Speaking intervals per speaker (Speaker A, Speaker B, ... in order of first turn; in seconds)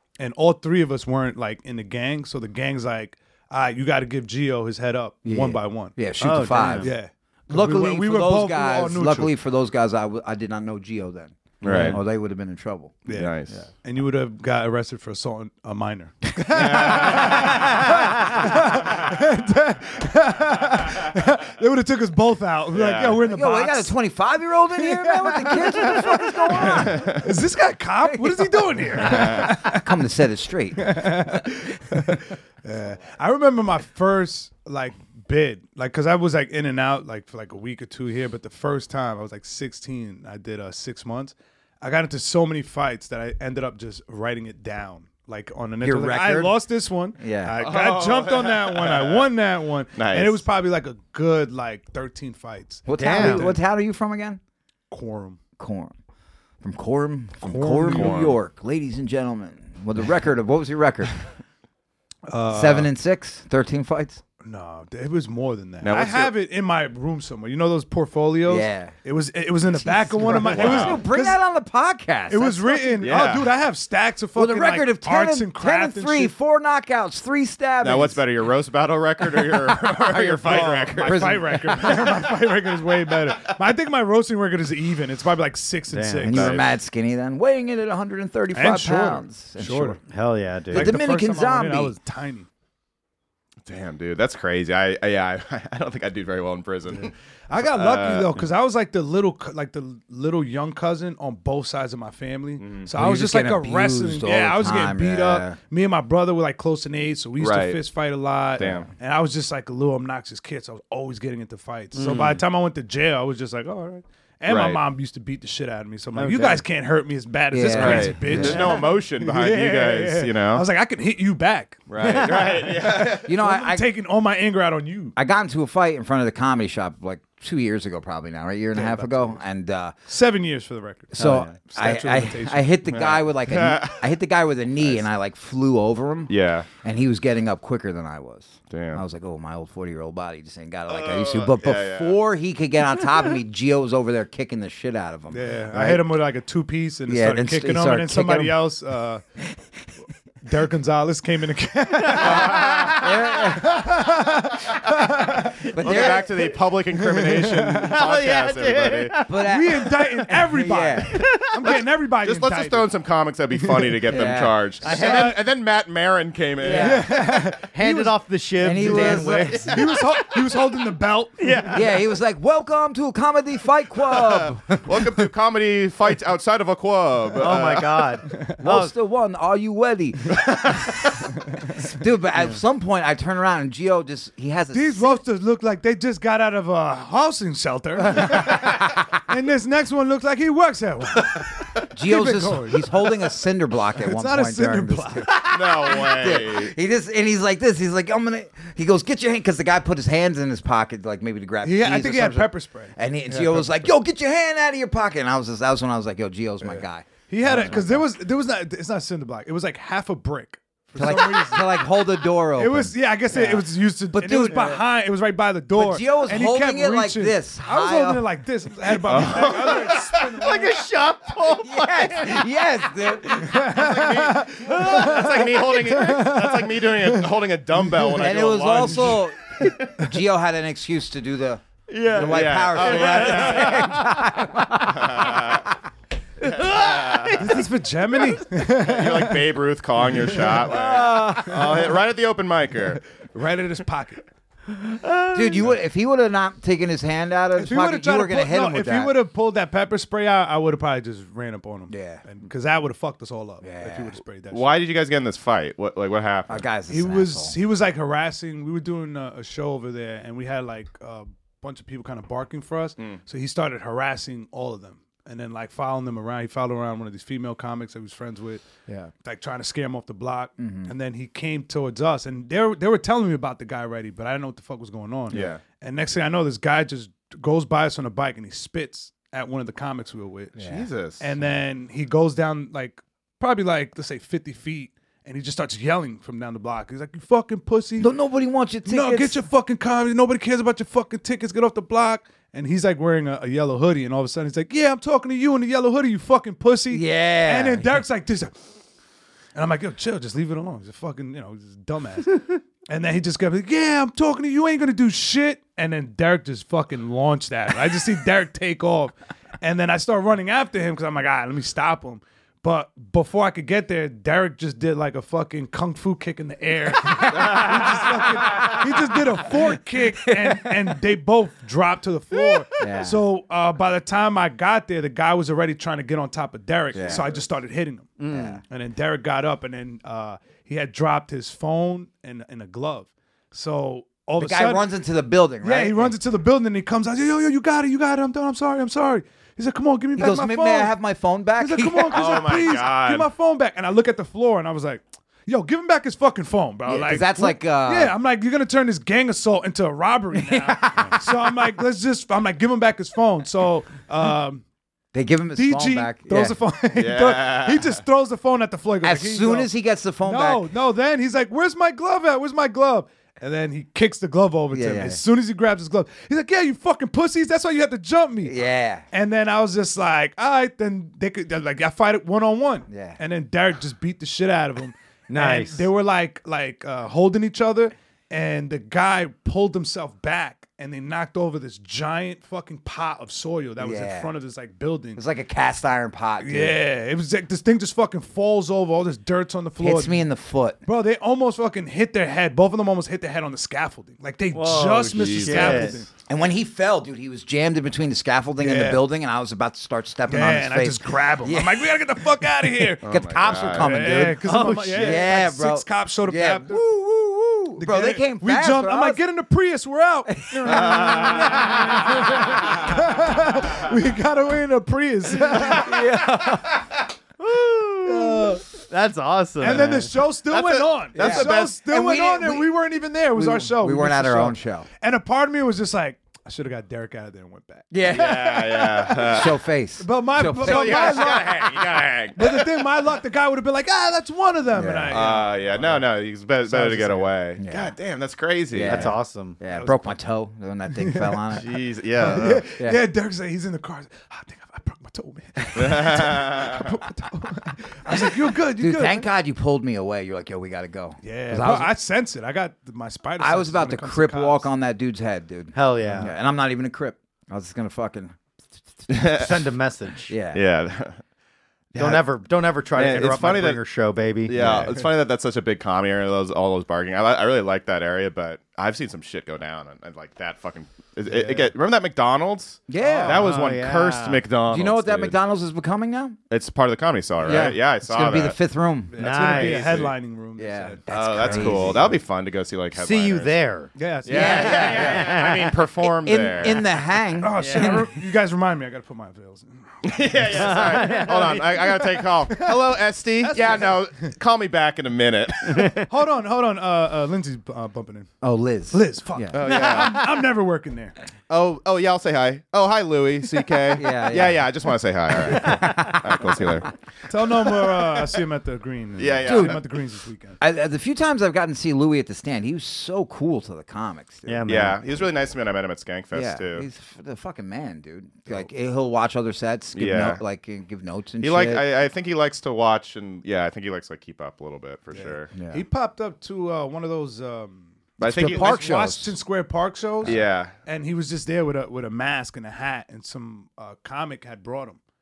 Speaker A: 0.2-6.0, 6.5-9.3, 11.7-11.9, 13.0-23.9, 24.8-29.9, 30.8-53.6, 54.9-55.4, 57.4-58.2, 62.3-62.9, 64.4-71.4, 72.3-76.3, 80.1-86.6, 88.5-90.0, 90.7-92.5, 97.5-121.8, 122.9-125.1, 128.7-129.4, 130.1-132.7, 145.3-149.2, 150.4-155.7, 157.1-157.9, 159.4-162.9, 163.6-164.0, 164.8-165.4, 166.7-168.2, 168.7-171.8, 184.7-193.1, 194.0-195.3, 201.6-203.8, 206.6-211.9, 212.5-220.8, 223.4-227.3, 227.8-229.1, 237.4-239.5, 240.2-240.7, 241.5-241.8, 243.2-244.2, 247.6-254.6, 256.9-268.7, 269.2-280.6, 281.2-288.1, 288.9-298.6, 299.5-328.1, 328.7-334.9, 335.6-340.9, 341.6-354.6, 355.5-359.7, 360.2-368.5, 369.1-385.2, 386.4-390.2, 390.9-396.1, 398.6-399.0, 400.3-403.1, 403.7-406.8, 407.8-416.3, 418.2-418.6, 419.6-437.3, 439.7-440.1, 441.0-449.2, 451.2-454.7, 471.3-471.7, 473.0-473.5, 479.1-482.0, 483.9-485.1, 487.4-491.9, 492.5-492.8, 493.4-494.3, 496.1-498.3, 498.9-501.1, 507.3-510.6, 525.1-535.0
Speaker B: 5.2-6.9, 7.5-13.7, 23.2-27.1, 28.0-32.1, 45.8-46.6, 47.2-47.6, 52.9-54.4, 55.6-55.9, 56.6-61.2, 62.5-64.2, 68.5-68.9, 69.7-73.1, 74.3-78.2, 80.1-82.2, 86.2-90.0, 90.7-91.9, 102.9-105.6, 117.5-118.8, 123.2-123.9, 125.2-129.9, 131.1-146.1, 147.1-148.6, 152.2-154.0, 155.6-156.3, 159.3-161.3, 164.1-164.8, 166.6-167.1, 168.6-169.9, 171.7-174.8, 178.6-181.2, 181.8-185.2, 188.1-189.0, 191.9-208.0, 210.9-214.8, 215.7-218.2, 221.5-224.2, 228.1-235.2, 245.3-249.1, 251.9-252.2, 253.6-254.2, 256.5-257.6, 268.9-269.1, 270.6-270.9, 280.6-280.9, 288.0-289.4, 296.9-298.0, 317.3-318.0, 322.8-323.2, 326.9-327.3, 328.3-328.6, 334.4-336.1, 340.1-342.4, 346.9-348.1, 350.3-351.4, 355.1-356.6, 359.0-360.7, 364.7-365.2, 368.4-369.1, 372.9-373.2, 383.8-384.3, 385.1-386.8, 389.8-390.8, 396.3-409.2, 410.4-413.0, 415.6-416.5, 417.4-418.6, 419.6-419.9, 420.6-422.7, 423.3-424.9, 427.9-428.5, 429.3-431.4, 434.7-435.2, 437.6-437.9, 438.7-441.6, 448.1-451.9, 453.4-458.4, 460.3-460.6, 464.5-464.9, 472.9-473.5, 474.7-476.4, 477.4-479.1, 480.6-482.1, 484.2-488.1, 498.4-499.6, 503.9-504.6, 505.6-506.6, 509.4-509.8, 510.6-515.1, 516.3-521.9, 525.5-525.8, 528.2-529.4
Speaker C: 6.2-6.9, 11.6-11.9, 53.0-53.5, 85.9-86.3, 90.0-91.0, 111.9-112.4, 116.1-116.6, 122.0-122.6, 131.2-131.5, 157.7-160.0, 161.1-161.5, 164.8-165.4, 166.7-169.8, 171.4-171.9, 177.4-178.9, 220.4-222.4, 224.7-225.4, 231.9-234.8, 236.5-237.5, 240.7-241.6, 328.2-328.6, 375.3-375.9, 394.5-396.0, 404.1-405.3, 415.6-416.6, 418.1-420.9, 438.8-439.6, 455.7-456.3, 459.3-460.3, 461.9-464.6, 473.3-474.4, 479.2-480.0, 482.9-483.9, 484.8-485.8, 487.6-488.0, 490.5-491.7, 495.7-496.1, 514.5-515.0
Speaker D: 11.6-12.0, 13.1-13.6, 16.5-17.8, 22.7-23.2, 26.7-27.3, 29.0-29.5, 47.6-49.3, 49.9-50.5, 57.9-58.4, 65.8-66.3, 70.3-71.0, 73.0-73.5, 77.8-81.4, 86.3-86.7, 93.7-98.4, 102.6-102.9, 107.4-107.8, 108.6-108.9, 114.5-114.8, 117.6-120.7, 121.9-123.3, 132.9-134.1, 136.3-136.7, 138.7-139.0, 140.9-142.2, 152.2-153.1, 155.7-159.2, 161.6-167.0, 169.4-169.8, 174.0-178.1, 195.5-196.7, 219.0-220.5, 223.7-229.2, 232.1-234.0, 234.8-235.7, 236.4-237.4, 238.7-243.0, 254.5-256.6, 275.3-275.6, 280.6-281.3, 342.1-343.3, 356.9-358.0, 395.1-396.0, 403.0-404.1, 410.7-411.8, 421.1-421.7, 428.1-429.6, 430.6-432.9, 435.1-439.1, 441.5-442.6, 445.7-446.9, 459.1-459.7, 460.5-461.2, 461.9-462.2, 462.9-463.8, 464.4-475.4, 476.5-478.6, 479.4-480.1, 481.1-483.6, 484.2-486.9, 490.0-496.0, 499.5-500.2, 501.5-506.9, 509.2-509.8, 514.6-516.9, 519.9-520.4, 521.4-525.5, 528.2-528.8, 530.2-530.7